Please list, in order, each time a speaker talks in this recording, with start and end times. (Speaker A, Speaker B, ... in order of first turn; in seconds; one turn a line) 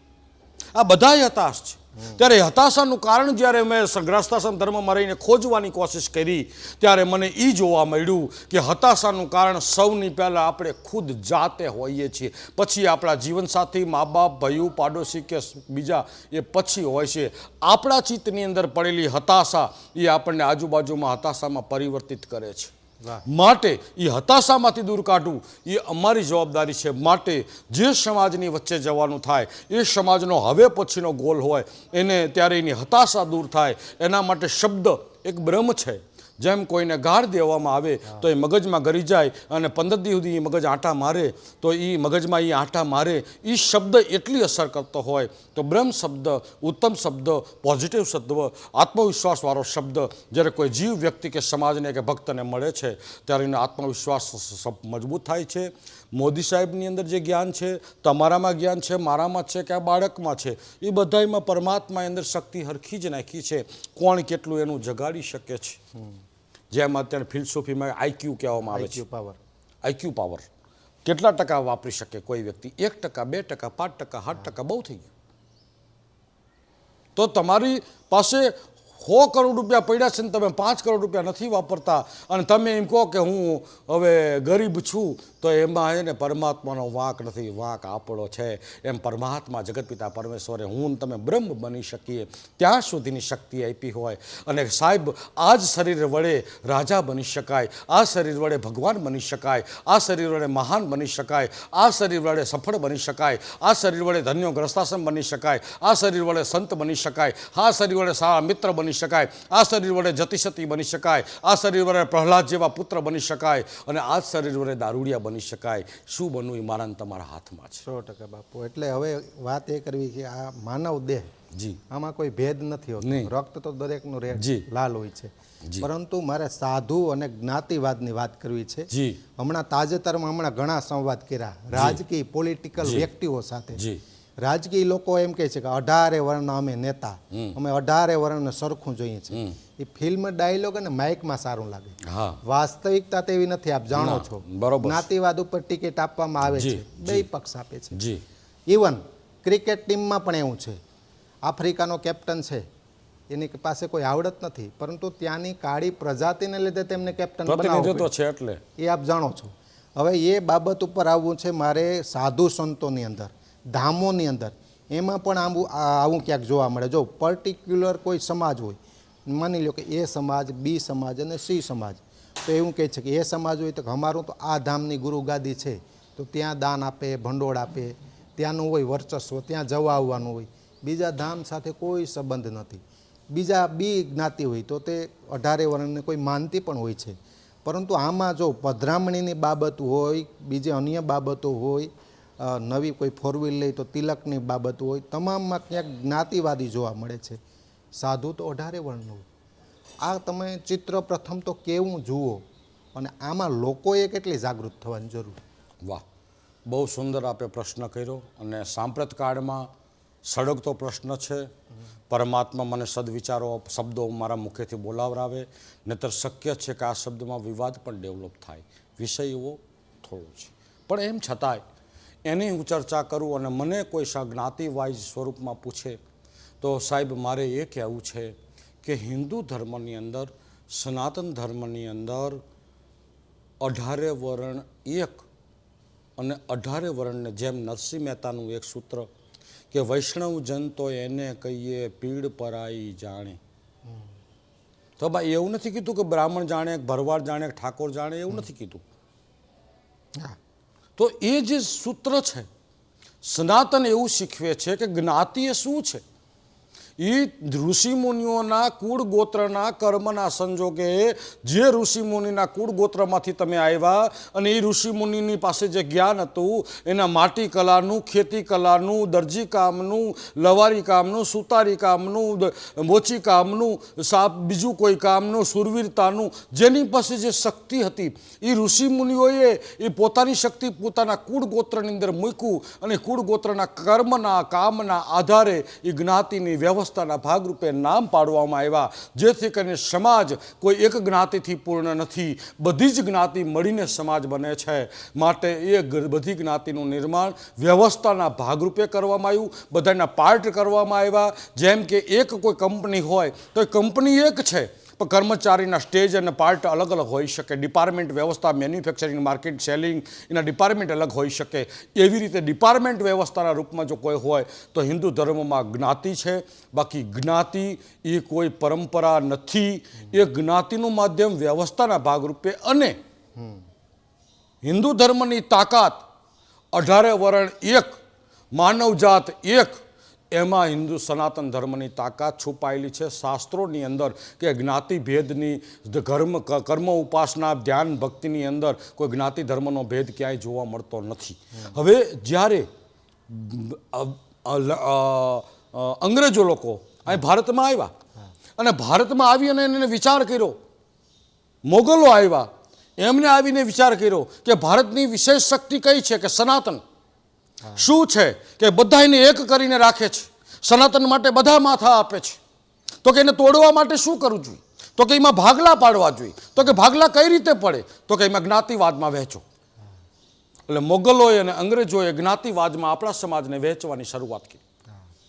Speaker A: 0.7-22.7
Speaker A: 23.3-65.8
Speaker B: 65.9-66.2
Speaker A: 66.7-69.0
Speaker B: 68.6-69.4
Speaker A: 69.8-70.5
Speaker A: 71.0-75.1
Speaker A: 77.2-117.8
Speaker B: 117.8-121.3
Speaker A: 121.5-121.8
Speaker B: 121.9-133.8
Speaker A: 123.0-123.3
Speaker A: 124.3-124.6
Speaker A: 128.9-129.2
Speaker A: 131.7-132.0
Speaker A: 132.8-133.1
Speaker A: 133.7-134.0
Speaker B: 134.4-148.0
Speaker A: 137.3-137.6
Speaker A: 139.3-139.6
Speaker A: 142.0-142.4
Speaker A: 143.9-145.1
Speaker A: 146.5-147.2
Speaker A: 147.9-148.2
Speaker B: 148.7-150.8
Speaker B: 151.4-152.7
Speaker B: 153.3-158.1
Speaker A: 157.4-158.6
Speaker B: 158.8-197.4
Speaker B: 197.9-199.2
Speaker B: 200.0-205.4
Speaker A: 206.7-209.7
Speaker A: 210.2-211.5
Speaker A: 212.1-221.6
Speaker A: 222.2-226.0
Speaker A: 226.6-232.4
Speaker A: 233.6-235.2
Speaker A: 236.2-239.1
Speaker A: 239.7-243.4
Speaker A: 245.0-248.8
Speaker A: 251.0-252.5
Speaker A: 253.2-256.0
Speaker A: 257.0-323.0
Speaker B: 323.4-323.7
Speaker A: 324.6-326.0
Speaker A: 326.7-328.0
Speaker A: 328.5-329.7
Speaker A: 330.3-342.7
Speaker B: 341.5-341.8
Speaker A: 343.3-347.9
Speaker A: 348.6-350.6
Speaker A: 351.6-356.8
Speaker B: 357.6-357.9
Speaker A: 357.8-362.4
Speaker A: 363.0-369.4
Speaker A: 370.7-374.6